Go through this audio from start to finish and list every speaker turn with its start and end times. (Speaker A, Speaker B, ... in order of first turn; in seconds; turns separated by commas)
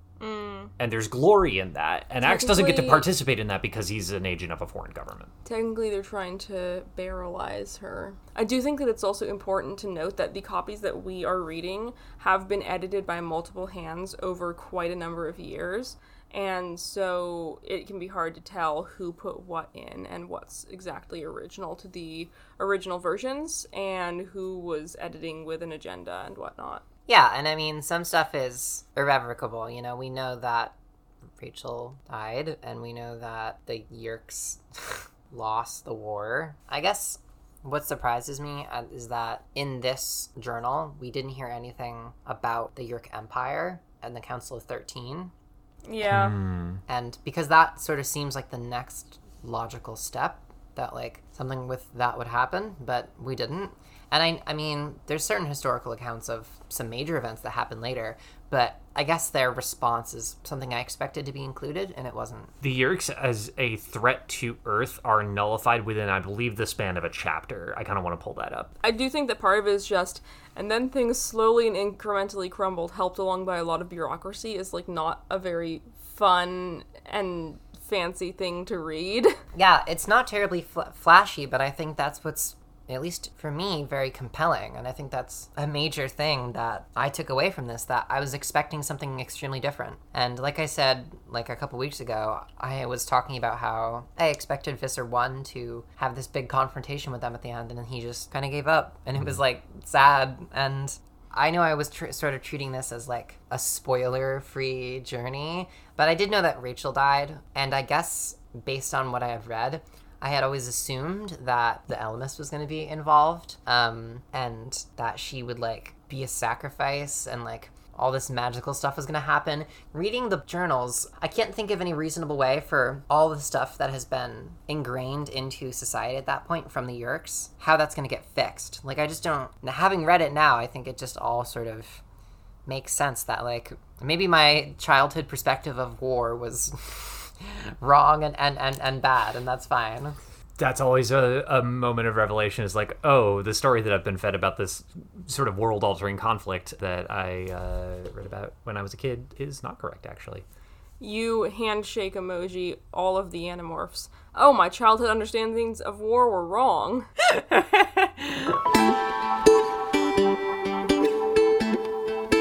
Speaker A: 0.2-0.7, Speaker B: 0.8-5.3, Speaker A: 2.2-3.1, Speaker A: 5.4-26.8, Speaker C: 27.1-30.8, Speaker C: 31.4-45.3, Speaker A: 45.8-46.4, Speaker B: 46.1-46.8, Speaker C: 46.9-62.5, Speaker B: 62.6-68.7, Speaker A: 68.8-79.3, Speaker C: 79.5-132.0, Speaker C: 132.7-140.2, Speaker B: 140.6-150.4, Speaker A: 151.0-157.1